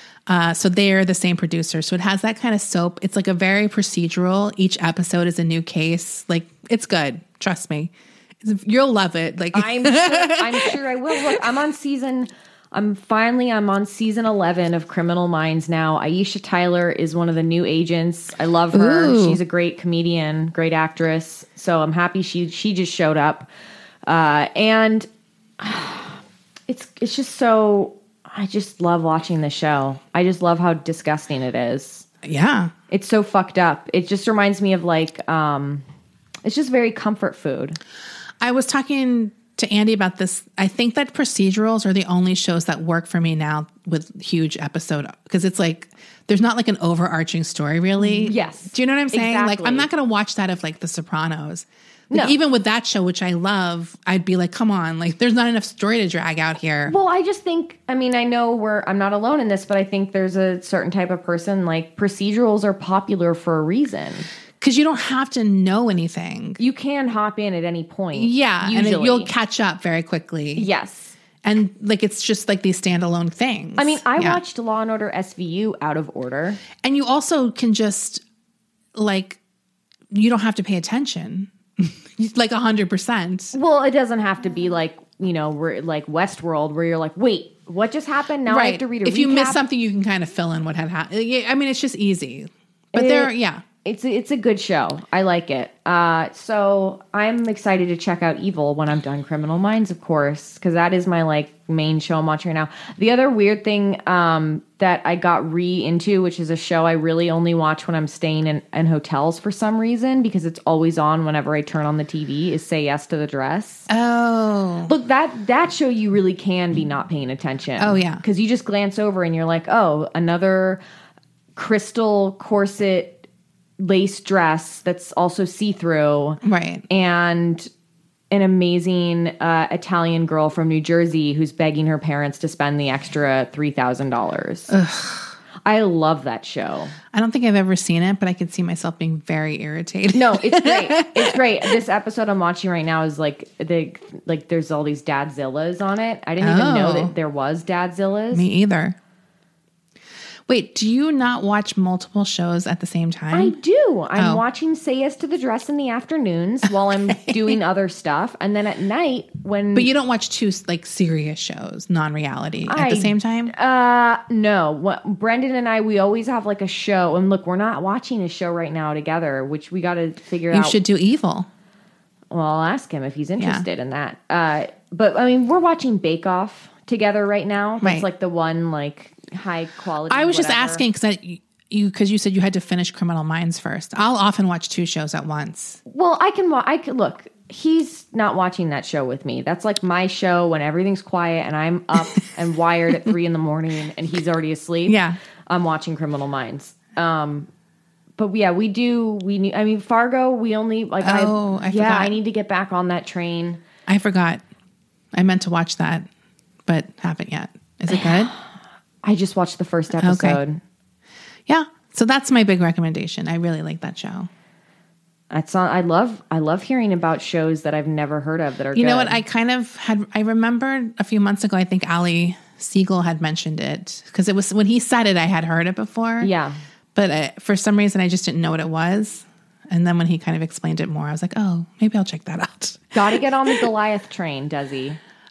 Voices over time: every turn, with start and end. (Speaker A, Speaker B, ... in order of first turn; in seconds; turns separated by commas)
Speaker A: 0.3-11.4, Speaker B: 9.5-23.5, Speaker A: 18.7-19.4, Speaker B: 24.1-25.1, Speaker B: 25.6-32.0, Speaker A: 32.2-32.7, Speaker B: 32.9-35.8, Speaker B: 36.4-37.8, Speaker A: 38.4-56.9, Speaker B: 48.0-49.9, Speaker B: 52.1-52.4, Speaker B: 56.9-64.3, Speaker A: 64.6-66.6, Speaker B: 66.6-69.3, Speaker A: 68.1-70.7, Speaker B: 70.5-71.2, Speaker A: 71.4-74.4, Speaker B: 73.8-76.6, Speaker A: 76.8-78.2, Speaker A: 78.9-79.4, Speaker A: 80.1-83.5, Speaker B: 83.5-89.6, Speaker A: 88.5-93.6, Speaker B: 92.9-93.3, Speaker B: 93.8-113.9, Speaker A: 113.9-114.9, Speaker B: 114.9-120.8, Speaker A: 117.8-118.2, Speaker B: 121.5-123.3, Speaker B: 123.8-127.7, Speaker A: 126.4-126.8, Speaker B: 128.3-134.7, Speaker A: 134.7-135.3, Speaker B: 135.6-136.9, Speaker A: 137.1-141.3, Speaker B: 140.1-148.5, Speaker A: 146.4-147.1, Speaker A: 148.3-148.9, Speaker A: 150.5-153.6, Speaker B: 153.3-159.9, Speaker A: 154.2-154.4, Speaker A: 159.7-163.5, Speaker B: 162.6-170.8, Speaker A: 170.5-171.5, Speaker B: 172.3-180.8, Speaker A: 173.4-173.7, Speaker A: 177.8-178.1, Speaker A: 180.1-185.8, Speaker B: 185.9-197.5, Speaker A: 194.9-195.2, Speaker B: 198.2-203.6, Speaker A: 201.0-202.2, Speaker A: 203.9-204.4, Speaker A: 205.1-206.1, Speaker A: 206.7-208.3, Speaker B: 207.9-208.4, Speaker B: 209.0-210.6, Speaker A: 210.0-210.4, Speaker A: 211.5-214.3, Speaker B: 215.3-219.2, Speaker A: 218.7-226.3, Speaker B: 226.2-226.6, Speaker A: 226.9-233.6, Speaker B: 232.9-235.0